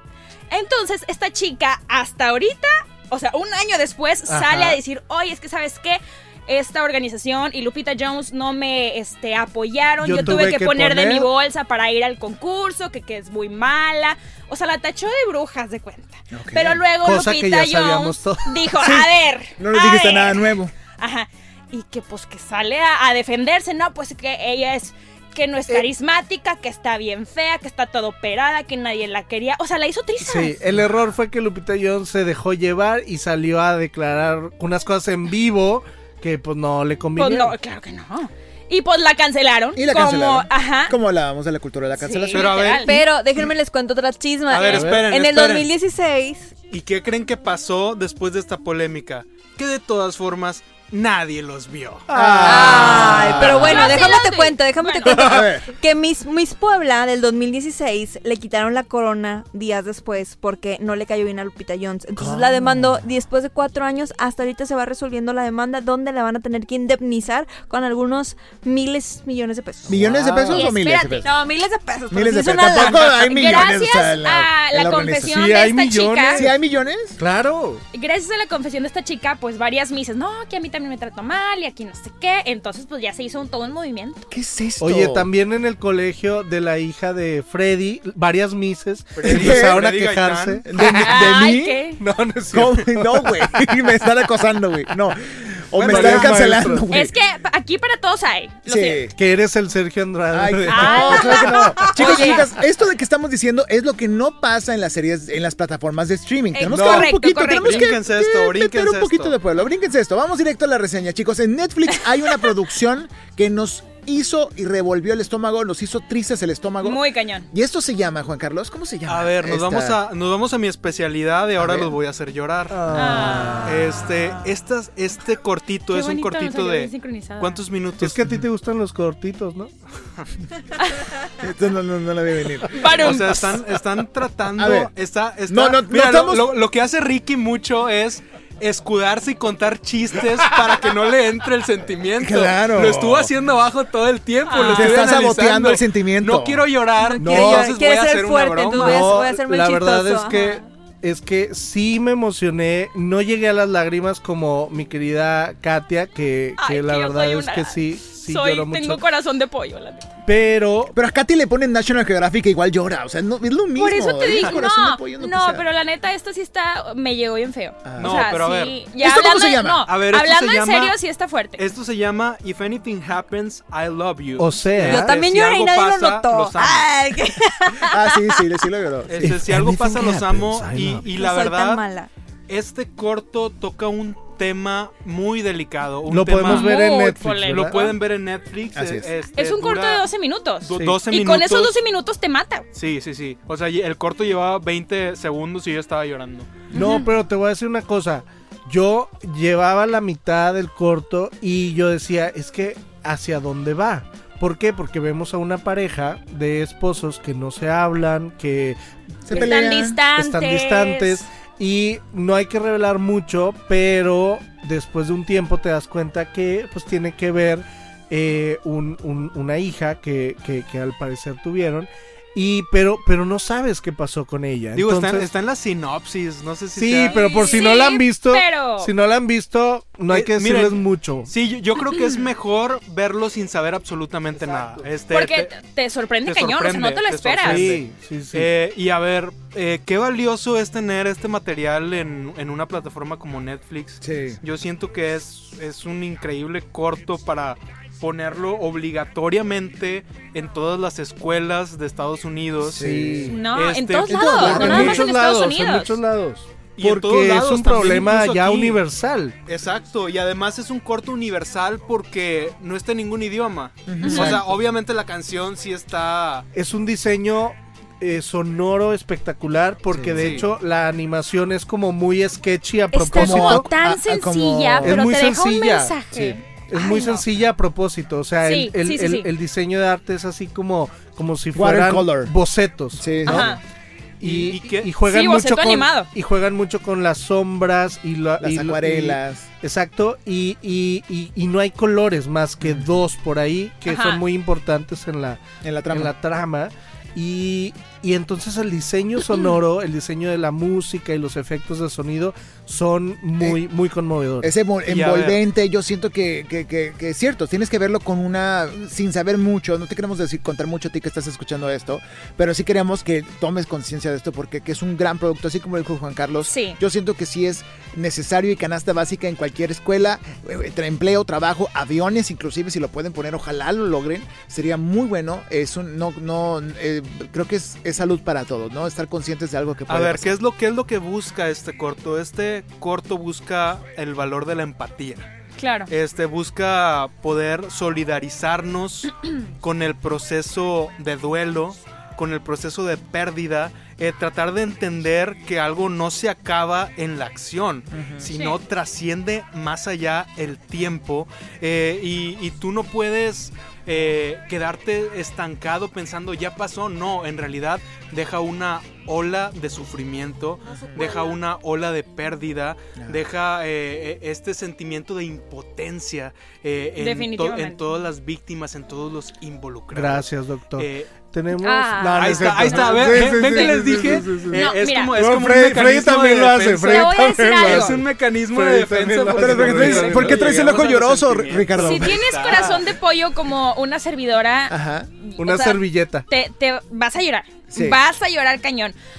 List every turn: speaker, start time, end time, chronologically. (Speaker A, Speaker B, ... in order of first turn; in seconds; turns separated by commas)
Speaker A: 0.5-30.5, Speaker B: 4.3-4.8, Speaker B: 10.0-11.3, Speaker C: 16.3-16.8, Speaker B: 17.0-18.8, Speaker C: 18.8-20.7, Speaker B: 30.2-37.5, Speaker A: 37.2-41.0, Speaker C: 39.7-42.7, Speaker A: 42.0-43.0, Speaker D: 42.3-42.9, Speaker E: 42.8-46.5, Speaker D: 44.5-45.7, Speaker B: 44.7-45.1, Speaker D: 46.7-52.1, Speaker B: 52.1-54.0, Speaker C: 52.1-53.8, Speaker E: 52.4-70.0, Speaker A: 53.5-55.4, Speaker B: 55.1-55.4, Speaker C: 55.1-55.7, Speaker C: 62.2-63.0, Speaker B: 69.9-70.7, Speaker C: 69.9-71.3, Speaker A: 70.5-71.1, Speaker E: 70.6-73.6, Speaker C: 72.1-75.4, Speaker A: 72.7-76.5, Speaker B: 75.2-76.5, Speaker C: 76.3-77.2, Speaker B: 77.2-77.8, Speaker A: 77.9-84.3, Speaker C: 84.3-85.3, Speaker B: 84.8-91.4, Speaker D: 89.1-90.7, Speaker C: 89.2-89.9, Speaker C: 90.6-91.8, Speaker A: 90.8-92.0, Speaker B: 92.0-93.9, Speaker C: 92.5-97.2, Speaker D: 95.8-96.6, Speaker B: 95.8-97.0, Speaker A: 96.9-99.1, Speaker C: 98.7-99.1, Speaker B: 99.2-102.5, Speaker C: 100.3-120.0, Speaker A: 100.7-102.5, Speaker A: 106.5-107.9, Speaker B: 106.7-107.1, Speaker D: 107.5-109.3, Speaker A: 116.8-117.5, Speaker D: 119.1-123.0, Speaker C: 121.6-122.0, Speaker B: 122.7-123.9, Speaker A: 122.9-123.6, Speaker D: 123.6-128.3, Speaker A: 125.9-127.6, Speaker B: 128.0-129.7, Speaker C: 131.4-133.6, Speaker A: 132.7-133.5, Speaker D: 133.0-149.2, Speaker C: 134.5-134.9, Speaker C: 135.5-136.5, Speaker C: 142.2-143.3, Speaker A: 144.5-145.1, Speaker C: 144.7-146.7, Speaker E: 147.0-150.6, Speaker B: 147.2-147.7, Speaker B: 148.8-159.0, Speaker A: 150.3-150.6, Speaker A: 156.6-160.1, Speaker B: 160.2-160.9, Speaker C: 160.9-165.6, Speaker A: 163.8-171.6, Speaker C: 167.8-168.4, Speaker D: 168.0-168.8, Speaker C: 169.0-169.8, Speaker D: 169.8-170.9, Speaker D: 171.6-176.9, Speaker B: 174.4-175.2, Speaker E: 174.8-178.4, Speaker C: 177.8-179.4, Speaker D: 179.1-181.8, Speaker B: 179.2-181.0, Speaker E: 181.1-182.1, Speaker D: 182.5-186.7, Speaker B: 186.1-187.8, Speaker A: 186.4-187.8, Speaker D: 187.5-190.0, Speaker C: 188.7-189.1, Speaker A: 189.3-192.7, Speaker D: 190.6-191.7, Speaker D: 192.7-196.7, Speaker B: 196.7-209.5, Speaker A: 196.7-197.1, Speaker C: 209.3-210.0, Speaker A: 209.3-211.2, Speaker B: 210.1-225.3, Speaker D: 224.8-227.6, Speaker B: 226.8-231.3, Speaker A: 227.1-228.9, Speaker D: 230.1-235.5, Speaker A: 231.8-232.2, Speaker A: 235.1-237.8, Speaker D: 236.2-252.9, Speaker B: 237.4-238.5, Speaker C: 244.0-244.4, Speaker B: 252.6-253.4, Speaker C: 252.7-253.4, Speaker A: 253.2-256.0, Speaker D: 253.5-254.9, Speaker C: 254.1-255.0, Speaker B: 254.1-259.3, Speaker D: 256.8-258.8, Speaker D: 259.4-266.4, Speaker C: 263.9-264.5, Speaker A: 264.0-264.3, Speaker B: 264.1-264.4, Speaker B: 266.5-273.7, Speaker C: 269.9-270.4, Speaker D: 270.1-270.5, Speaker A: 272.9-277.2, Speaker C: 273.1-275.0, Speaker B: 274.8-283.6, Speaker A: 278.4-279.3, Speaker C: 281.5-282.3, Speaker C: 282.9-283.6, Speaker A: 283.2-283.6, Speaker B: 284.2-304.5, Speaker D: 284.2-284.9, Speaker A: 285.0-286.1, Speaker C: 288.4-289.4, Speaker A: 293.9-294.2, Speaker C: 295.6-296.1, Speaker C: 304.4-330.4, Speaker D: 304.9-305.4, Speaker A: 316.4-316.8, Speaker D: 329.9-335.3, Speaker A: 335.6-335.9, Speaker D: 335.9-371.1, Speaker C: 347.9-348.3, Speaker A: 360.7-361.4, Speaker C: 363.0-363.2, Speaker A: 367.0-367.8, Speaker B: 369.9-380.7, Speaker A: 371.6-375.1, Speaker D: 372.1-382.9, Speaker A: 376.8-378.0, Speaker C: 379.3-382.3, Speaker A: 381.8-388.9, Speaker C: 384.7-385.1, Speaker B: 385.4-386.2, Speaker C: 387.7-388.0